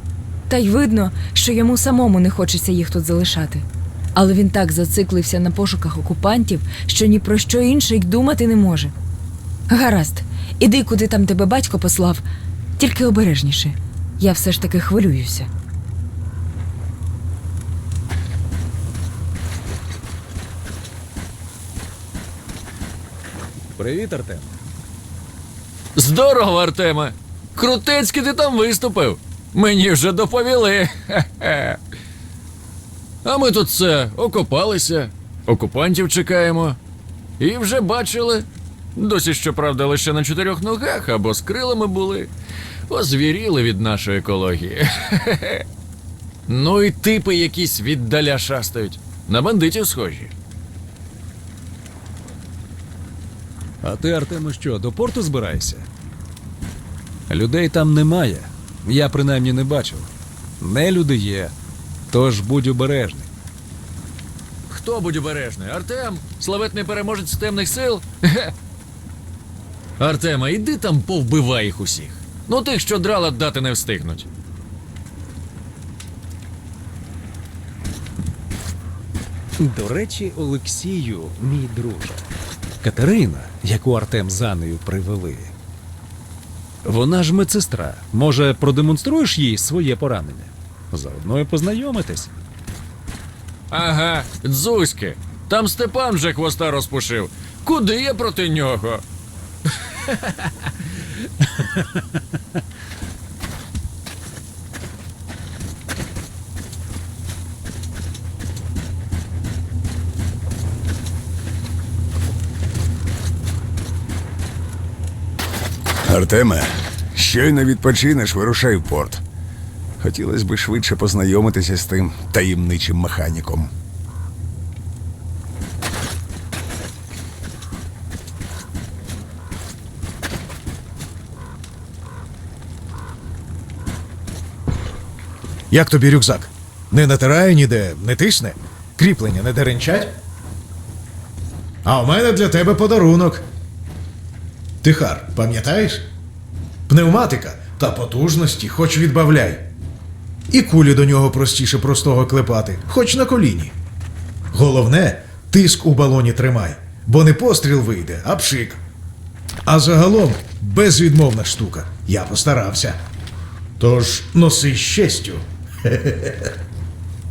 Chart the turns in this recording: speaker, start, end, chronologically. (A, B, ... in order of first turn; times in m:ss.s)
0:00.5-0:03.6 A
0:04.2-0:08.9 A
0:09.7-0:12.2 A
0:12.8-0:15.5 A
0:23.8-0:24.5 B
0:26.0-0:31.8 C
0:33.2-0:36.8 C
0:37.4-0:42.3 C
0:42.9-0:45.6 C
0:46.5-0:50.3 C
0:53.8-0:55.9 B
0:57.3-1:00.1 B
1:00.6-1:01.5 B
1:02.1-1:03.3 B
1:04.7-1:08.5 C
1:10.0-1:14.3 C
1:19.6-1:22.2 B
1:22.8-1:25.5 B
1:26.8-1:32.3 B
1:33.7-1:39.0 C
1:56.1-1:59.2 D
2:00.0-2:03.7 D
2:15.7-2:20.1 E
2:21.8-2:23.4 E
2:24.8-2:26.0 E
2:26.9-2:29.6 E
2:30.5-2:33.7 E
2:34.5-2:38.8 E
2:39.7-2:43.0 E
2:43.8-2:46.5 E